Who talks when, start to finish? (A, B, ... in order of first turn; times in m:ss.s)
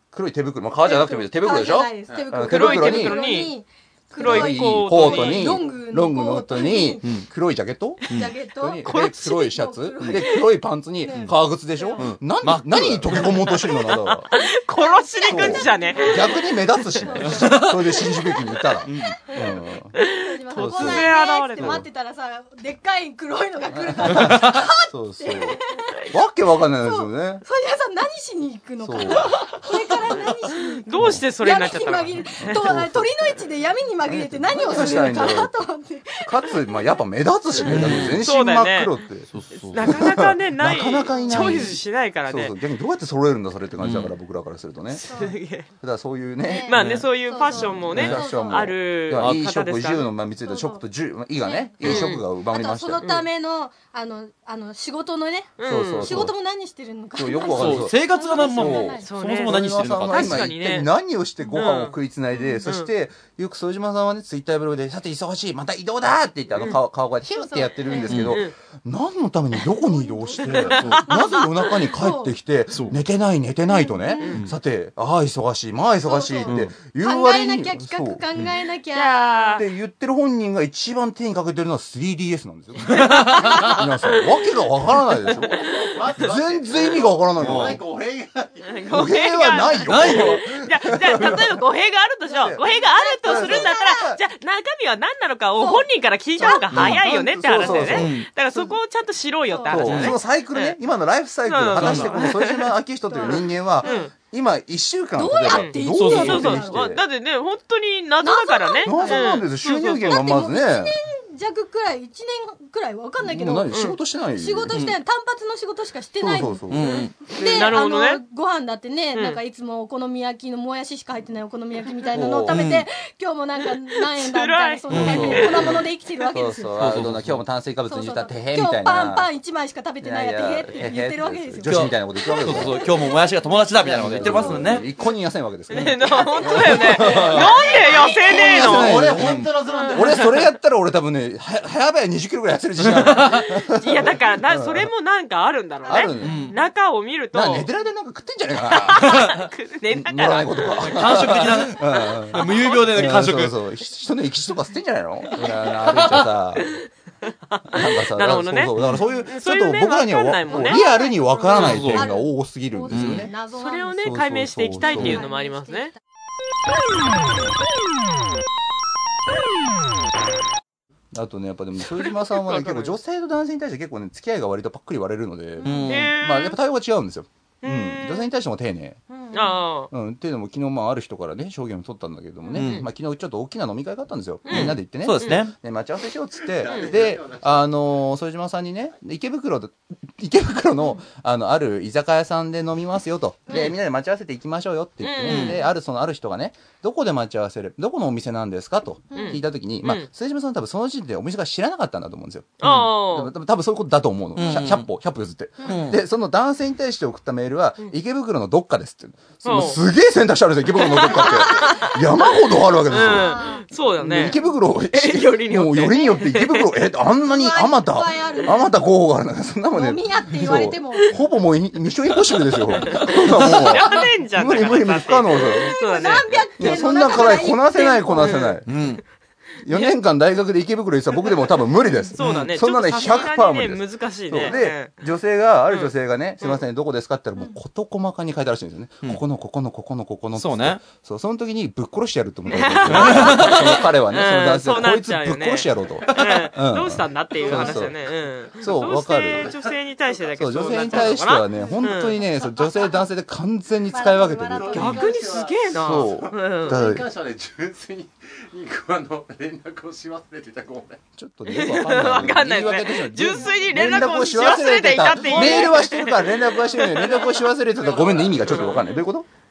0:00.1-0:03.4 A
0:00.8-0:07.1 B
0:02.4-0:03.5 C
0:04.1-0:08.0 A
0:04.2-0:05.6 C
0:08.1-0:12.1 B
0:08.6-0:14.3 A
0:08.8-0:09.4 C
0:10.1-0:10.4 C
0:12.0-0:13.4 D
0:13.1-0:18.6 B
0:13.4-0:16.3 C
0:15.2-0:20.0 A
0:17.2-0:17.8 D
0:18.9-0:19.2 D
0:19.2-0:19.6 B
0:20.0-0:21.8 C
0:20.2-0:26.0 B
0:20.5-0:21.8 A
0:23.7-0:27.4 A
0:24.1-0:24.4 D
0:26.8-0:30.8 B
0:28.8-0:29.6 A
0:30.6-0:32.7 C
0:31.4-0:36.8 B
0:32.4-0:33.4 A
0:34.0-0:35.6 A
0:36.2-0:45.1 A
0:37.6-0:38.0 B
0:37.6-0:38.2 D
0:38.2-0:38.9 C
0:39.3-0:39.9 D
0:39.7-0:42.6 C
0:41.1-0:41.7 B
0:43.8-0:44.1 D
0:44.9-0:45.7 C
0:45.1-0:45.4 B
0:45.8-0:53.1 A
0:46.4-0:48.7 B
0:46.7-0:50.1 C
0:46.8-0:47.1 D
0:47.9-0:48.2 D
0:49.2-0:49.5 D
0:50.4-0:50.8 B
0:51.4-0:59.1 B
0:51.8-0:52.1 D
0:51.8-0:52.2 C
0:53.0-0:53.3 C
0:55.6-0:56.3 C
0:55.6-0:56.3 A
0:57.2-1:18.2 A
0:57.5-1:00.5 D
0:59.0-1:00.9 C
1:01.5-1:02.0 C
1:02.3-1:02.6 B
1:02.6-1:02.9 C
1:07.4-1:08.1 B
1:08.1-1:08.4 D
1:08.2-1:08.5 C
1:09.8-1:12.3 B
1:10.5-1:11.4 C
1:10.6-1:11.0 D
1:13.7-1:14.4 B
1:16.0-1:19.6 B
1:16.5-1:16.7 D
1:18.9-1:19.6 C
1:19.6-1:27.8 A
1:22.9-1:23.8 D
1:23.2-1:24.2 C
1:25.3-1:28.9 E
1:25.6-1:25.9 C
1:27.4-1:27.8 D
1:28.7-1:40.8 C
1:28.9-1:31.6 A
1:29.7-1:30.5 D
1:31.0-1:31.5 D
1:32.3-1:34.1 B
1:32.3-1:32.6 A
1:33.2-1:34.2 A
1:35.6-1:36.7 B
1:36.7-1:38.1 A
1:36.7-1:37.0 D
1:37.5-1:38.8 B
1:37.9-1:38.3 D
1:39.5-1:39.9 B
1:39.7-1:47.0 A
1:39.8-1:40.2 D
1:41.5-1:42.7 C
1:41.7-1:42.1 D
1:43.1-1:44.1 B
1:43.2-1:44.1 C
1:45.2-1:46.9 B
1:45.5-1:50.1 C
1:45.9-1:46.6 D
1:48.2-1:53.8 B
1:48.8-1:51.0 A
1:53.2-1:54.8 A
1:53.7-1:54.0 C
1:54.4-2:06.8 B
1:56.2-1:57.8 A
1:56.7-1:57.2 D
1:57.5-1:58.2 C
1:59.1-1:59.4 C
2:02.1-2:02.6 A
2:02.5-2:02.9 D
2:04.1-2:05.8 C
2:04.9-2:05.4 D
2:04.9-2:09.3 A
2:06.8-2:07.4 D
2:07.9-2:13.5 B
2:10.0-2:13.1 A
2:11.6-2:14.9 D
2:13.8-2:24.9 A
2:14.2-2:14.8 B
2:15.7-2:19.0 C
2:16.0-2:18.4 B
2:17.6-2:20.4 E
2:18.9-2:19.5 D
2:19.7-2:20.2 C
2:22.8-2:23.6 D
2:23.8-2:27.7 C
2:25.9-2:26.5 B
2:25.9-2:26.4 A
2:26.2-2:26.6 D
2:27.3-2:36.7 A
2:28.8-2:33.1 C
2:30.8-2:31.8 D
2:32.3-2:33.6 D
2:35.9-2:36.2 D
2:36.6-2:36.9 C
2:37.5-2:40.8 C
2:37.7-2:43.3 A
2:38.8-2:39.0 D
2:40.5-2:44.2 B
2:41.6-2:42.0 D
2:42.9-2:43.3 D
2:43.5-2:45.9 C
2:44.0-2:45.2 A
2:44.8-2:46.0 B
2:45.0-2:45.2 D
2:51.1-2:59.0 A
2:52.4-2:53.0 C
2:55.6-2:56.1 D
2:55.8-2:56.6 C
2:57.6-2:58.3 C
2:59.1-2:59.6 B
2:59.3-2:59.9 C
2:59.9-3:33.4 A
3:02.5-3:02.9 C
3:02.6-3:02.8 D
3:04.5-3:05.4 C
3:04.5-3:05.5 D
3:06.4-3:07.8 E
3:06.7-3:07.0 C
3:15.0-3:15.6 C
3:15.2-3:15.6 D
3:19.1-3:19.4 B
3:19.2-3:20.1 C
3:22.6-3:23.3 C
3:22.6-3:22.9 D
3:24.4-3:24.9 D
3:25.6-3:25.9 B
3:25.7-3:26.0 D
3:29.4-3:29.8 C
3:30.8-3:32.0 C
3:31.3-3:31.7 B
3:32.9-3:34.4 C
3:32.9-3:34.6 B
3:34.0-3:48.9 A
3:34.9-3:36.8 C
3:37.3-3:38.8 B
3:39.7-3:41.1 B
3:42.8-3:47.2 C
3:43.0-3:43.6 D
3:43.0-3:44.0 B
3:45.3-3:48.6 B
3:48.2-3:48.6 C
3:48.7-3:49.0 D
3:49.6-4:08.0 A
3:52.1-3:55.0 C
3:52.2-3:52.6 D
3:55.7-3:56.6 C
4:00.4-4:00.8 D
4:02.5-4:12.2 C
4:02.8-4:03.8 D
4:06.1-4:06.5 D
4:07.4-4:11.1 E
4:08.6-4:09.5 A
4:10.4-4:15.0 A
4:11.5-4:13.1 B
4:13.9-4:15.5 B
4:14.5-4:21.0 E
4:14.7-4:16.8 C
4:15.7-4:17.1 A
4:21.2-4:29.3 A
4:21.5-4:27.4 C
4:23.3-4:24.1 B
4:25.3-4:25.6 D
4:25.4-4:25.7 B
4:27.1-4:28.8 E
4:28.5-4:28.8 C